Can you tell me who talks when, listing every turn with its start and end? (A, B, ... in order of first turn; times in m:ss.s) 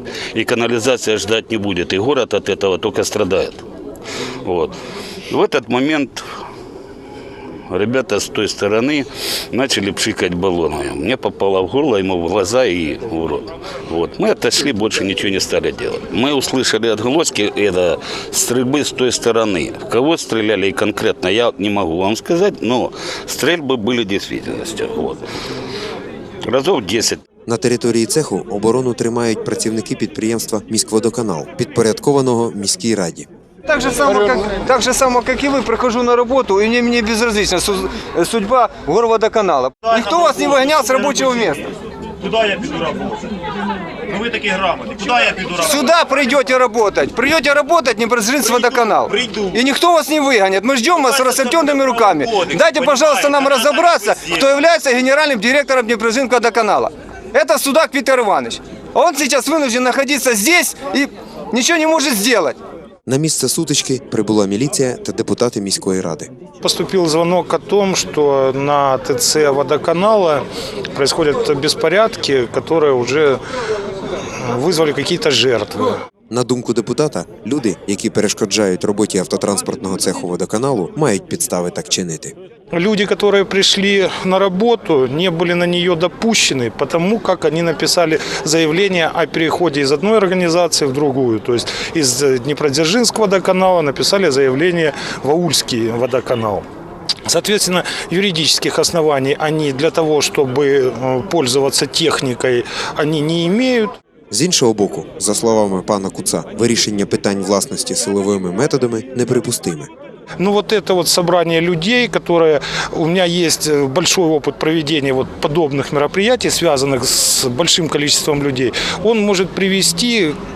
0:00.3-0:03.6 A
0:04.4-0:04.7 A
0:05.3-0:06.2 A
0:07.7-0:25.2 A
0:26.4-0:27.2 A
0:27.4-0:33.3 B
0:33.6-0:41.6 C
0:40.0-0:40.6 D
0:42.2-0:43.4 D
0:44.1-0:45.9 D
0:45.5-1:02.6 C
0:49.2-0:49.5 D
0:51.3-0:54.4 D
1:03.0-1:06.3 B
1:06.6-1:10.4 E
1:10.9-1:13.4 E
1:14.4-1:16.0 E
1:16.3-1:22.3 B
1:22.7-1:36.6 E
1:37.3-1:43.9 E
1:44.3-1:49.9 B
1:50.4-2:00.3 E